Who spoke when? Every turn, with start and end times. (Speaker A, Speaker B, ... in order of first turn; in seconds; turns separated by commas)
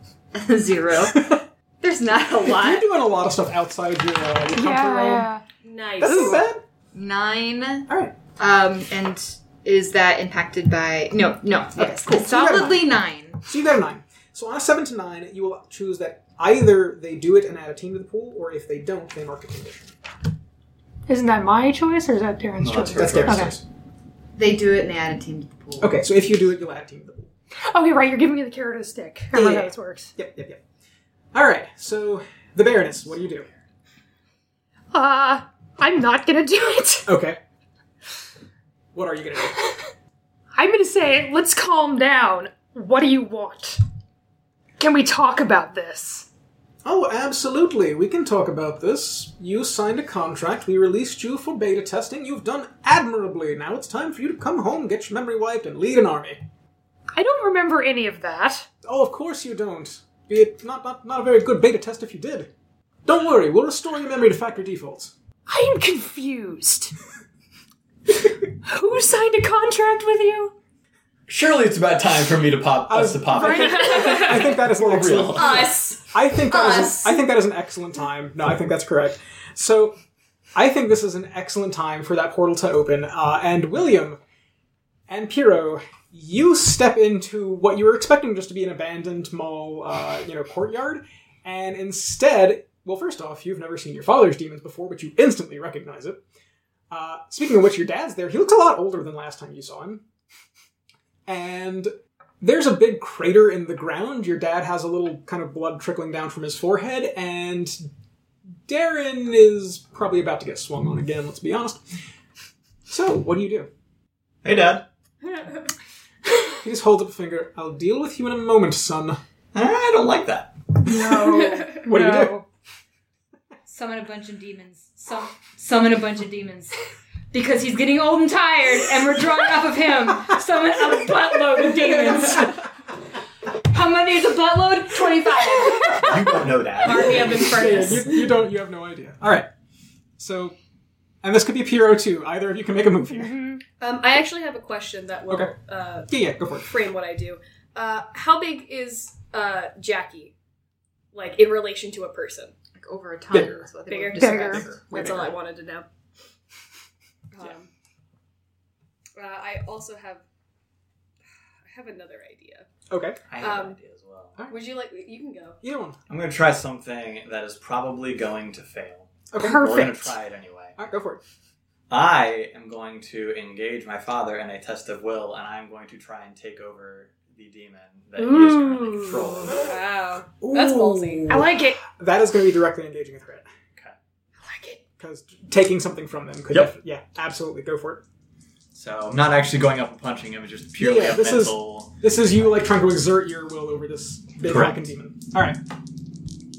Speaker A: 0.3-2.8, Speaker B: 1.1-1.4, Speaker B: 2.5-5.3, Speaker C: 4.5-5.4, Speaker D: 5.6-6.5, Speaker B: 6.0-6.6, Speaker C: 6.0-6.4, Speaker A: 6.9-13.4, Speaker B: 7.9-8.1, Speaker B: 11.8-12.8, Speaker B: 13.5-19.9, Speaker C: 21.1-23.6, Speaker E: 22.6-23.5, Speaker B: 22.9-23.6, Speaker A: 24.4-26.0, Speaker B: 25.8-27.3, Speaker C: 27.7-30.1, Speaker B: 29.3-30.6, Speaker B: 31.3-33.5, Speaker C: 34.9-37.1, Speaker B: 37.1-37.4, Speaker B: 38.9-39.6, Speaker C: 40.6-43.8, Speaker C: 44.8-46.3, Speaker B: 46.8-56.4, Speaker C: 57.1-58.7, Speaker B: 58.8-62.5, Speaker B: 63.1-65.1, Speaker C: 65.5-67.0, Speaker C: 68.6-70.5, Speaker E: 71.3-75.8, Speaker B: 72.9-80.0, Speaker C: 73.3-74.3, Speaker D: 73.5-74.5, Speaker D: 75.3-77.0, Speaker A: 76.5-77.1, Speaker B: 80.6-84.2, Speaker B: 85.1-96.2, Speaker B: 96.9-100.0, Speaker B: 101.3-107.9, Speaker B: 108.7-111.8, Speaker B: 112.9-113.7, Speaker E: 114.4-114.8, Speaker D: 115.2-115.7, Speaker B: 116.6-119.2, Speaker E: 119.5-120.5, Speaker C: 120.8-122.4, Speaker D: 121.3-121.8, Speaker B: 121.3-122.4, Speaker A: 123.7-132.7, Speaker B: 131.8-132.6, Speaker A: 133.7-136.4, Speaker E: 135.8-137.8, Speaker D: 136.8-138.3, Speaker B: 136.9-139.5, Speaker B: 140.2-140.6, Speaker B: 141.2-143.4, Speaker C: 143.1-143.6, Speaker D: 143.8-150.3, Speaker B: 146.1-146.7, Speaker D: 151.1-152.5, Speaker A: 152.8-154.8, Speaker B: 153.3-153.7, Speaker D: 153.9-155.9, Speaker C: 154.2-154.7, Speaker B: 154.5-155.3, Speaker D: 157.3-157.7, Speaker D: 159.2-160.2, Speaker D: 161.7-162.7, Speaker B: 162.9-163.2, Speaker E: 163.3-164.4, Speaker D: 163.4-163.8, Speaker D: 164.5-165.6, Speaker B: 165.6-166.0, Speaker E: 166.1-170.8, Speaker B: 169.3-169.8, Speaker C: 169.4-170.2, Speaker B: 170.8-171.2, Speaker E: 171.9-179.7, Speaker C: 178.2-179.5, Speaker D: 179.5-181.3, Speaker B: 180.4-183.5, Speaker C: 181.3-181.8, Speaker C: 184.4-184.8, Speaker B: 185.0-188.0, Speaker E: 188.7-192.6, Speaker B: 190.8-195.6, Speaker E: 194.4-194.8